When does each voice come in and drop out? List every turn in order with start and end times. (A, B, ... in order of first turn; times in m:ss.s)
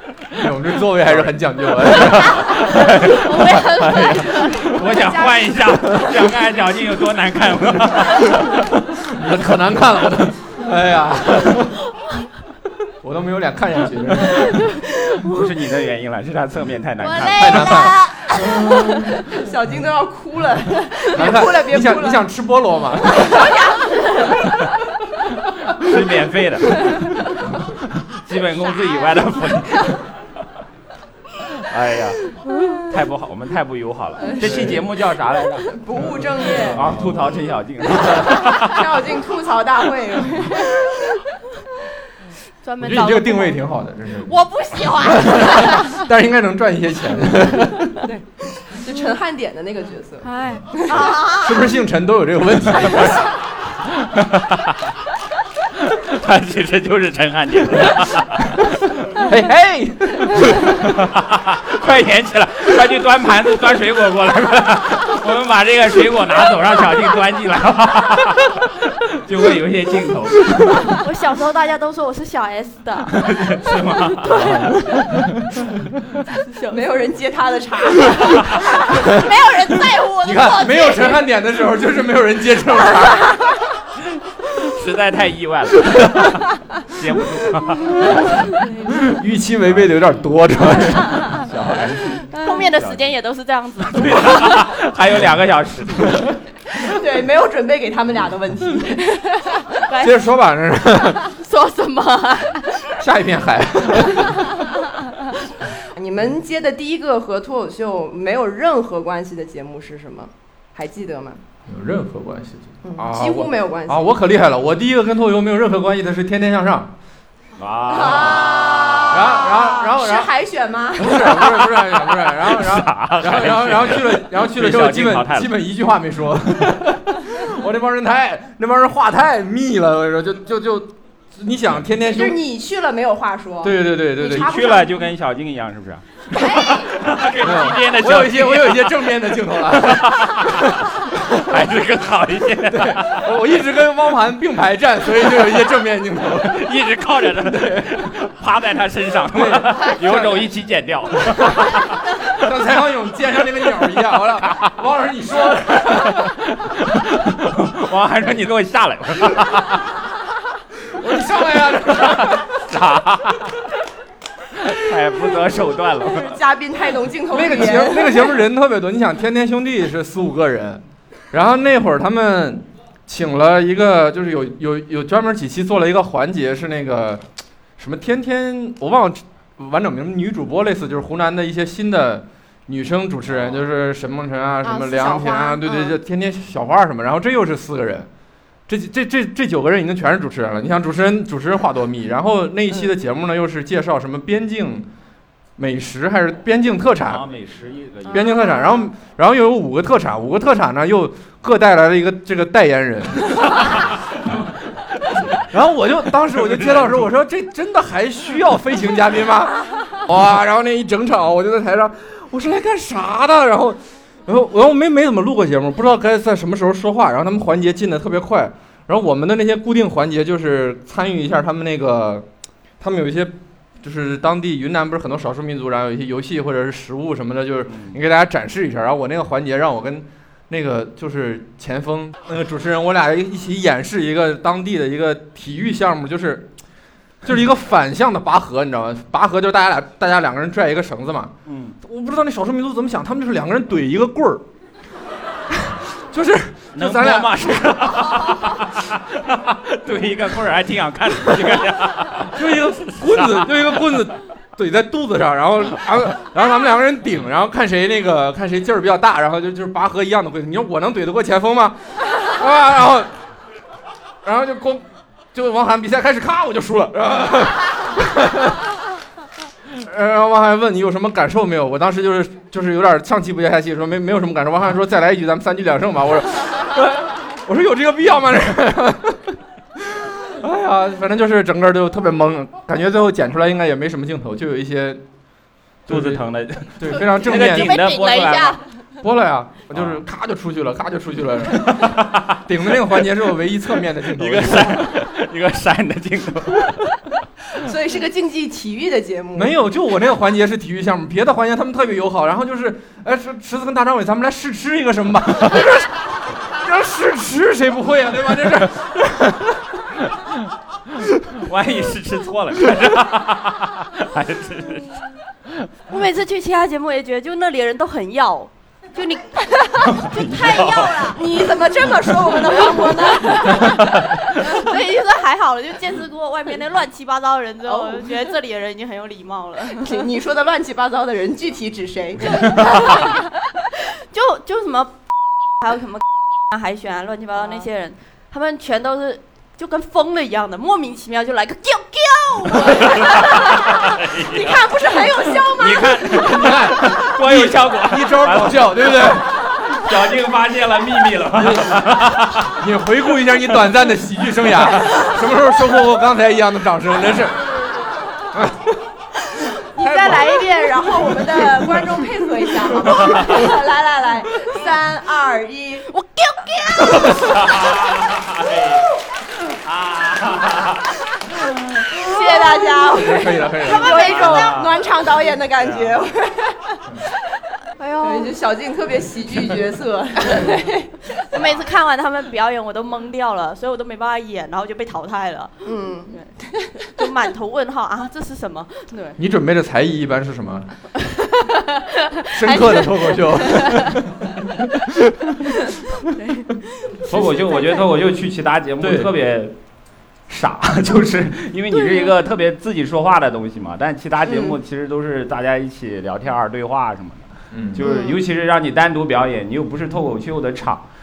0:00.2-0:08.7 A
0:00.3-0:02.6 B
0:02.2-0:05.4 C
0:09.0-0:11.8 B
0:13.0-0:14.7 B
0:14.4-0:15.5 C
0:15.2-0:17.9 A
0:17.0-0:19.2 C
0:17.4-0:19.2 B
0:19.2-0:22.2 D
0:21.1-0:23.6 B
0:23.2-0:24.0 D
0:23.2-0:24.5 C
0:25.7-0:27.0 A
0:27.8-0:30.1 A
0:28.6-0:30.0 C
0:31.6-0:35.8 A
0:32.4-0:32.9 C
0:34.2-0:34.8 D
0:34.4-0:34.8 B
0:35.7-0:36.8 D
0:36.0-0:37.4 B
0:36.6-0:38.9 A
0:38.0-0:41.0 D
0:42.6-0:43.6 C
0:42.8-0:48.0 B
0:44.2-0:46.0 C
0:48.0-0:51.1 D
0:50.2-0:51.7 C
0:51.2-0:53.3 B
0:53.9-0:54.9 A
0:55.8-0:58.7 A
0:59.1-1:00.8 B
1:00.8-1:10.9 A
1:10.8-1:15.0 C
1:13.1-1:14.6 A
1:14.3-1:15.6 B
1:16.3-1:16.8 C
1:16.7-1:18.8 D
1:18.6-1:21.2 C
1:20.2-1:23.4 B
1:24.4-1:28.5 A
1:28.4-1:29.1 C
1:29.0-1:31.5 B
1:29.6-1:30.0 A
1:31.4-1:33.1 A
1:32.3-1:34.7 C
1:33.8-1:36.4 A
1:36.7-1:39.7 D
1:39.7-1:40.2 C
1:40.0-1:41.3 B
1:41.2-1:43.0 C
1:43.0-1:44.5 B
1:44.2-1:44.7 C
1:45.9-1:51.4 D
1:51.6-1:56.9 B
1:52.8-1:54.1 D
1:57.6-1:59.2 A
1:57.9-2:01.4 D
1:59.1-2:00.3 B
2:00.9-2:12.4 B
2:01.4-2:05.5 A
2:12.0-2:15.1 D
2:13.6-2:14.6 B
2:14.2-2:19.1 A
2:17.4-2:21.6 B
2:19.6-2:23.3 A
2:22.7-2:26.6 B
2:26.4-2:32.0 A
2:27.4-2:27.9 B
2:29.3-2:30.5 B
2:31.3-2:36.4 B
2:35.9-2:40.0 A
2:40.8-2:42.5 B
2:42.0-2:43.6 A
2:44.6-2:46.4 A
2:46.0-2:48.3 D
2:47.3-2:57.2 B
2:57.8-3:08.1 B
3:04.6-3:05.9 D
3:08.7-3:14.9 B
3:15.6-3:17.2 B
3:17.0-3:18.4 A
3:18.1-3:23.5 B
3:18.4-3:18.8 D
3:23.6-3:24.4 A
3:25.0-3:25.4 A
3:25.5-3:42.2 B
3:26.4-3:26.9 A
3:42.8-3:56.5 B
3:47.7-3:48.0 A
3:57.2-4:04.4 B
4:01.4-4:01.8 A
4:06.0-4:07.4 B
4:06.7-4:14.1 A
4:12.3-4:23.1 B
4:24.2-4:28.7 B
4:29.7-4:45.0 B
4:45.9-4:48.6 A
4:45.9-4:46.2 B
4:46.8-4:47.8 B
4:46.9-4:48.6 C
4:49.0-4:54.9 B
4:49.7-4:50.0 A
4:51.6-4:52.4 A
4:54.1-4:56.8 A
4:57.5-4:59.5 D
4:59.4-5:09.8 B
5:11.3-5:15.7 A
5:15.9-5:21.5 C
5:19.8-5:21.2 A
5:21.1-5:23.8 D
5:22.3-5:30.1 C
5:23.5-5:23.8 A
5:27.6-5:28.3 D
5:29.7-5:33.1 D
5:32.3-5:35.0 C
5:35.6-5:43.6 C
5:37.4-5:37.6 D
5:42.7-5:43.0 A
5:43.1-5:43.5 D
5:43.7-5:44.6 A
5:44.2-5:46.6 D
5:45.4-5:52.6 A
5:46.1-5:49.3 B
5:51.3-5:57.5 B
5:58.3-5:58.8 B
5:59.7-6:05.9 D
5:59.8-6:00.2 B
6:05.9-6:07.2 C
6:07.2-6:11.8 A
6:11.9-6:16.8 D
6:12.0-6:12.8 C
6:12.9-6:14.0 B
6:13.7-6:14.6 C
6:14.0-6:14.8 A
6:15.6-6:16.0 A
6:17.8-6:18.4 C
6:18.0-6:21.1 D
6:21.3-6:29.2 C
6:25.6-6:26.8 D
6:29.2-6:30.7 B
6:31.2-6:34.0 C
6:32.3-6:35.3 B
6:36.2-6:37.8 C
6:37.0-6:39.6 A
6:38.8-6:39.1 B
6:40.3-6:50.9 A
6:41.7-6:42.1 C
6:44.2-6:44.5 D
6:47.5-6:47.8 B
6:47.8-6:48.2 D